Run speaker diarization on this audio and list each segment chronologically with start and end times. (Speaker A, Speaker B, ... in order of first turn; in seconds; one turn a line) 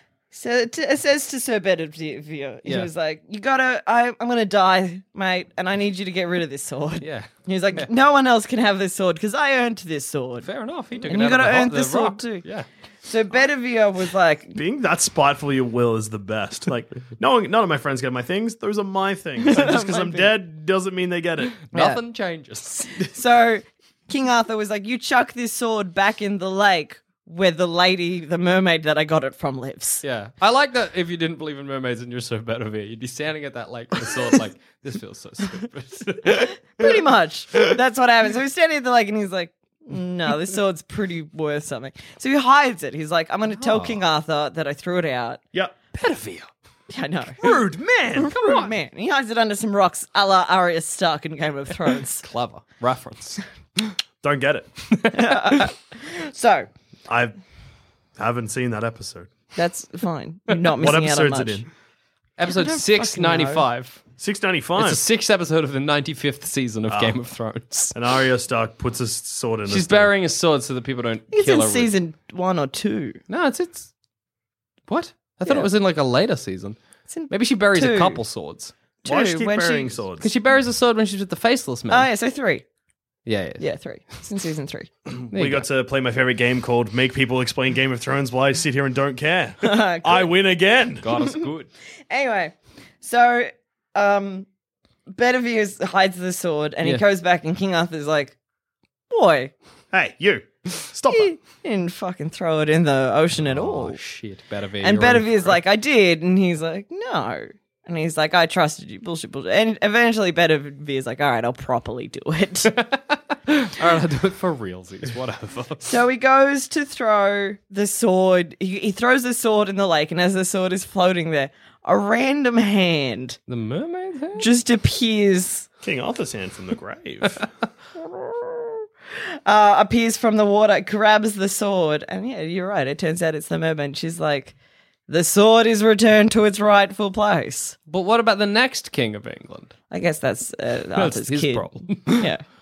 Speaker A: 0.3-10.5
Speaker B: 2.6-2.9
Speaker B: 7.0-7.9
Speaker B: 10.4-12.7
Speaker A: 11.1-12.4
Speaker A: 13.0-14.6
Speaker C: 14.5-21.6
Speaker A: 19.4-20.3
Speaker B: 21.7-22.9
Speaker A: 21.7-22.0
Speaker A: 23.0-30.0
Speaker B: 30.0-36.9
Speaker A: 36.3-45.4
Speaker B: 43.5-44.0
Speaker B: 45.9-46.5
Speaker A: 46.9-47.4
Speaker C: 47.4-48.6
Speaker A: 48.2-52.2
Speaker B: 48.4-48.6
Speaker B: 52.2-53.4
Speaker C: 54.2-54.8
Speaker B: 54.9-55.6
Speaker A: 55.1-56.7
Speaker C: 57.1-57.4
Speaker C: 58.2-59.3
Speaker A: 59.5-61.6
Speaker C: 60.8-61.6
Speaker B: 62.4-64.0
Speaker A: 62.5-63.6
Speaker C: 64.2-65.0
Speaker B: 64.8-67.9
Speaker C: 66.9-67.2
Speaker C: 67.9-70.1
Speaker B: 69.7-71.9
Speaker A: 71.3-73.2
Speaker B: 73.3-73.9
Speaker B: 74.9-76.8
Speaker A: 77.1-78.2
Speaker B: 77.3-78.7
Speaker A: 79.0-79.9
Speaker C: 79.0-80.3
Speaker B: 80.2-82.1
Speaker A: 81.9-82.6
Speaker B: 83.2-83.6
Speaker A: 83.6-84.9
Speaker C: 85.1-91.0
Speaker B: 85.3-85.7
Speaker A: 89.6-90.3
Speaker B: 91.0-91.7
Speaker A: 92.1-94.5
Speaker A: 95.1-98.3
Speaker A: 99.1-99.5
Speaker C: 99.9-101.3
Speaker A: 101.1-104.0
Speaker B: 103.4-105.6
Speaker A: 104.8-112.7
Speaker B: 112.7-115.9
Speaker A: 115.8-123.4
Speaker B: 123.5-124.5
Speaker A: 124.4-125.7
Speaker C: 125.8-127.5
Speaker A: 128.0-128.8
Speaker A: 129.4-134.5
Speaker A: 135.1-137.8
Speaker B: 137.9-139.7
Speaker A: 139.9-142.4
Speaker B: 140.9-142.3